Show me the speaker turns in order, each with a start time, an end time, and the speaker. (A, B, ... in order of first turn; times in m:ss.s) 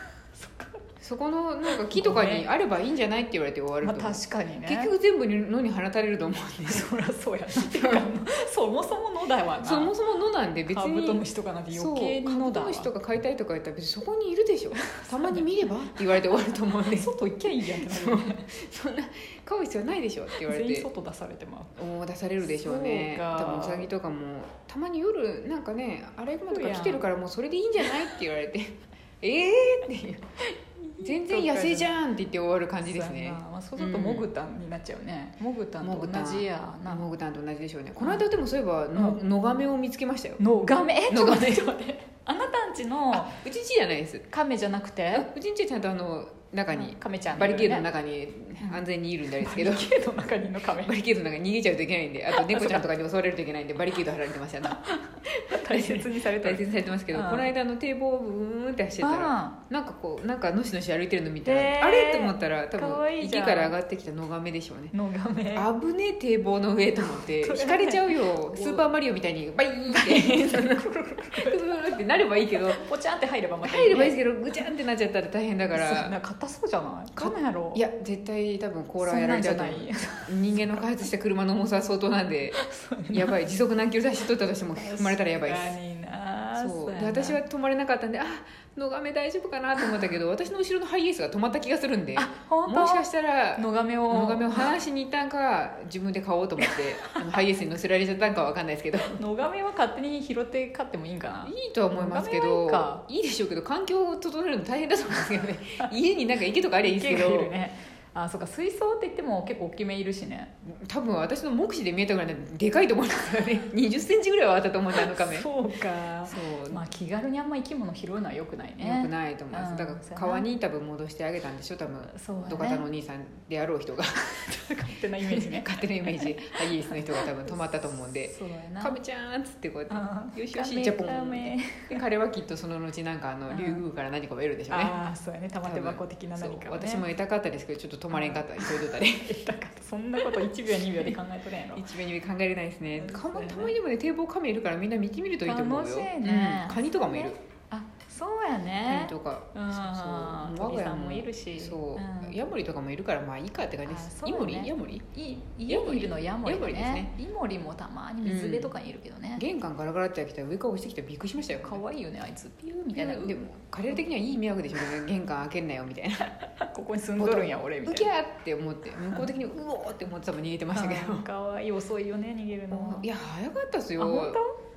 0:00.4-0:00.8 A
0:01.0-0:06.9 B
0:01.9-0:02.5 A
0:03.8-0:04.9 A
0:06.7-0:09.9 A
0:07.5-0:08.0 B
0:09.6-0:17.1 B
0:10.7-0:12.9 A
0:14.8-0:15.5 A
0:16.9-0:18.4 A
0:17.7-0:20.9 B
0:20.3-0:21.7 A
0:21.8-0:34.3 B
0:22.4-0:23.9 A
0:26.5-0:27.0 A
0:30.9-0:31.9 A
0:32.8-0:37.0 A
0:35.8-0:40.4 B
0:38.0-0:38.3 A
0:38.9-0:39.2 A
0:40.4-0:43.4 A
0:41.1-0:41.8 B
0:43.1-0:44.3 B
0:44.3-0:45.3 A
0:45.1-0:49.9 B
0:46.7-0:47.9 A
0:49.4-0:51.0 A
0:50.8-1:04.9 B
0:52.3-0:52.9 A
0:54.6-0:57.5 A
0:59.0-0:59.6 A
1:01.4-1:03.7 A
1:04.9-1:05.7 A
1:05.6-1:12.8 B
1:07.0-1:08.8 A
1:09.9-1:14.2 A
1:13.6-1:16.1 B
1:15.7-1:17.8 A
1:17.2-1:22.6 B
1:19.0-1:20.8 A
1:22.6-1:23.3 A
1:23.1-1:25.8 B
1:24.8-1:27.4 A
1:26.6-1:39.2 B
1:32.2-1:34.7 A
1:36.6-1:37.2 A
1:39.1-1:43.0 A
1:41.4-1:47.5 B
1:46.8-1:50.5 A
1:50.7-1:55.5 B
1:55.0-2:00.5 A
1:56.3-1:56.8 B
1:58.8-2:04.2 B
2:02.1-2:02.9 A
2:04.3-2:07.6 A
2:05.2-2:15.0 B
2:08.2-2:09.0 A
2:09.9-2:12.0 A
2:13.5-2:13.8 A
2:14.7-2:17.0 A
2:15.6-2:19.3 B
2:18.1-2:21.9 A
2:20.2-2:21.2 B
2:21.7-2:27.4 B
2:23.0-2:23.8 A
2:25.4-2:32.4 A
2:28.9-2:35.1 B
2:33.8-2:39.4 A
2:35.7-2:37.1 B
2:38.2-2:38.7 B
2:39.4-2:41.8 B
2:41.6-2:43.3 A
2:43.0-2:46.3 B
2:46.4-2:48.1 A
2:47.2-2:51.3 B
2:50.7-2:53.1 A
2:52.7-2:54.4 B
2:54.0-2:54.5 A